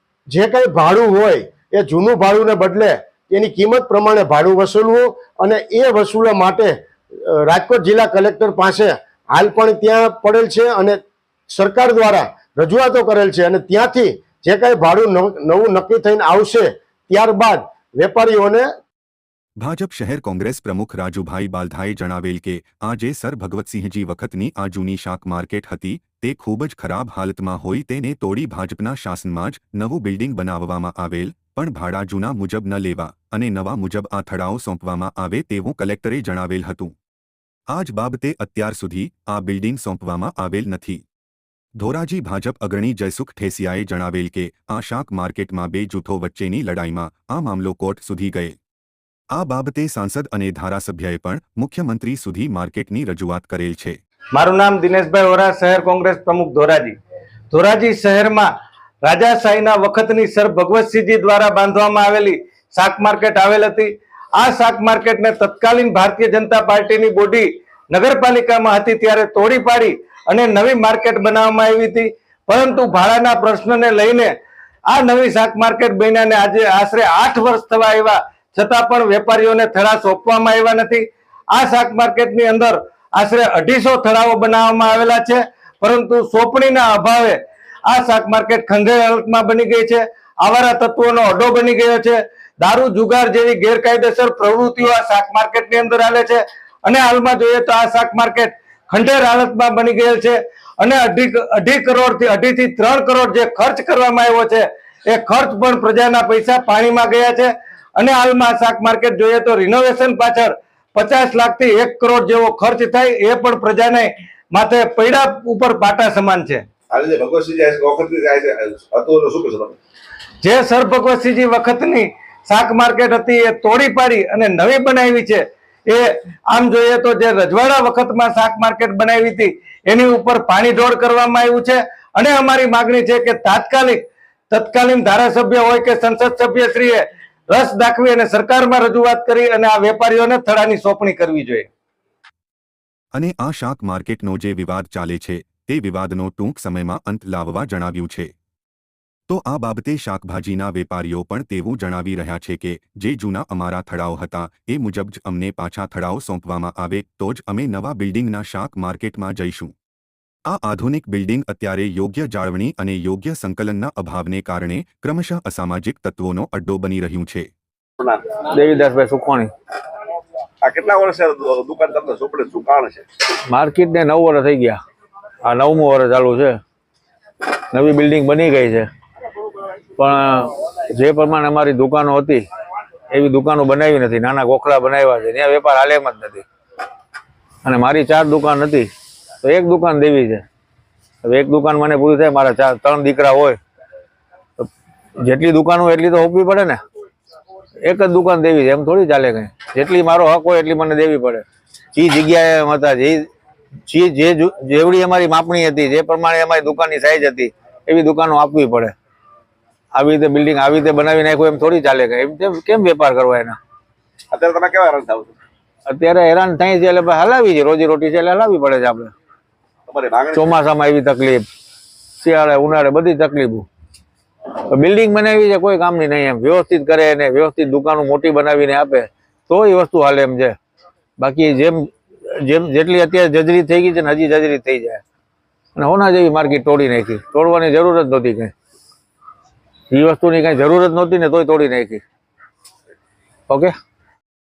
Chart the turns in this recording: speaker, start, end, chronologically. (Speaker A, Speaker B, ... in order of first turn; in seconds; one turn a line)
Speaker A: 0.3-6.7
Speaker A: 7.4-11.0
Speaker A: 11.5-18.7
Speaker B: 19.6-36.9
Speaker B: 37.8-41.0
Speaker B: 41.9-48.5
Speaker B: 49.4-54.0
Speaker C: 54.3-56.9
Speaker C: 57.5-58.5
Speaker C: 59.0-74.3
Speaker C: 74.9-116.6
Speaker D: 116.9-119.7
Speaker C: 120.4-141.7
Speaker B: 143.3-148.2
Speaker B: 149.3-159.7
Speaker B: 160.5-167.5
Speaker E: 168.5-169.5
Speaker D: 170.6-173.0
Speaker E: 173.5-174.8
Speaker E: 175.4-176.6
Speaker E: 177.7-178.9
Speaker E: 180.0-182.4
Speaker E: 183.1-186.4
Speaker E: 187.6-188.9
Speaker E: 189.4-190.4
Speaker E: 191.2-193.6
Speaker E: 195.2-196.8
Speaker E: 197.8-203.2
Speaker E: 203.9-208.9
Speaker E: 209.9-213.6
Speaker D: 214.3-215.3
Speaker E: 215.9-219.1
Speaker E: 220.3-221.4
Speaker E: 222.2-223.7
Speaker E: 224.7-230.6
Speaker E: 231.2-231.9
Speaker E: 232.4-235.0
Speaker E: 235.8-238.5
Speaker E: 239.9-242.0